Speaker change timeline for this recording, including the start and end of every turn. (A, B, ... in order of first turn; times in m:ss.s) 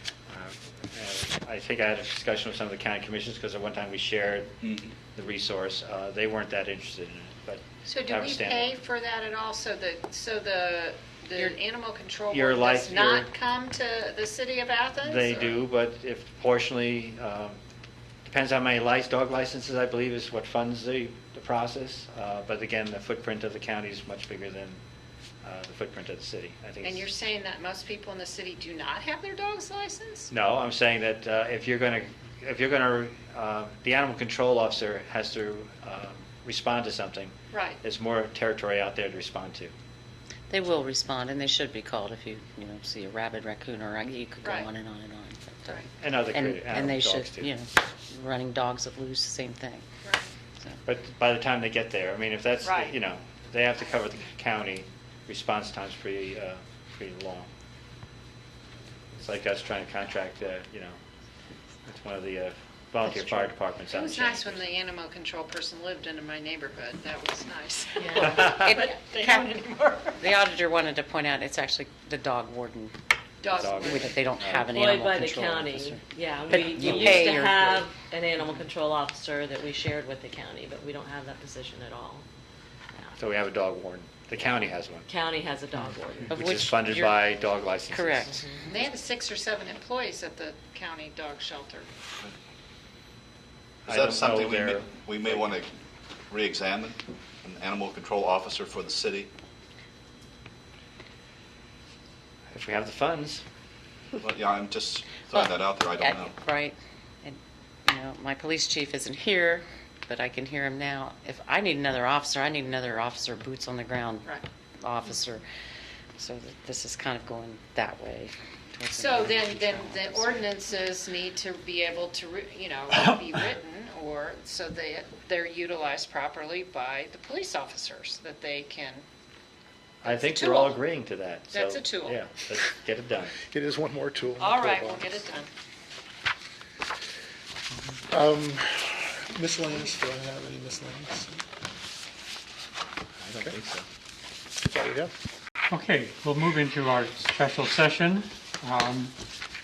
0:00.3-0:08.8 A
0:04.6-0:05.0 B
0:07.9-0:15.6 C
0:12.3-0:13.3 A
0:15.0-0:17.6 A
0:18.3-0:24.8 A
0:25.4-0:27.1 A
0:26.8-0:30.3 C
0:30.3-0:39.7 A
0:37.5-0:37.8 C
0:40.5-0:45.8 D
0:45.9-0:47.5 A
0:46.3-0:49.8 D
0:50.0-0:50.3 C
0:50.9-0:57.5 A
0:52.6-0:53.0 C
0:59.2-1:01.0 A
1:01.9-1:04.7 A
1:03.9-1:10.5 C
1:10.2-1:12.9 D
1:13.4-1:14.2 C
1:13.5-1:14.9 A
1:13.8-1:17.9 D
1:14.7-1:22.2 E
1:16.8-1:17.2 A
1:23.2-1:25.1 A
1:25.1-1:26.4 E
1:26.3-1:28.4 A
1:26.4-1:27.2 D
1:27.9-1:28.3 D
1:28.3-1:28.6 E
1:28.7-1:31.9 C
1:33.9-1:35.7 B
1:33.9-1:35.5 A
1:36.3-1:39.3 B
1:42.5-1:43.4 A
1:44.2-1:46.4 B
1:46.0-1:54.3 D
1:54.8-1:55.4 D
1:56.2-2:00.0 D
1:58.9-2:09.0 C
2:10.0-2:13.4 A
2:10.0-2:10.7 C
2:11.5-2:12.2 C
2:13.5-2:15.3 F
2:14.4-2:15.5 C
2:18.1-2:21.4 F
2:23.2-2:23.8 A
2:24.7-2:25.1 F
2:25.7-2:29.2 G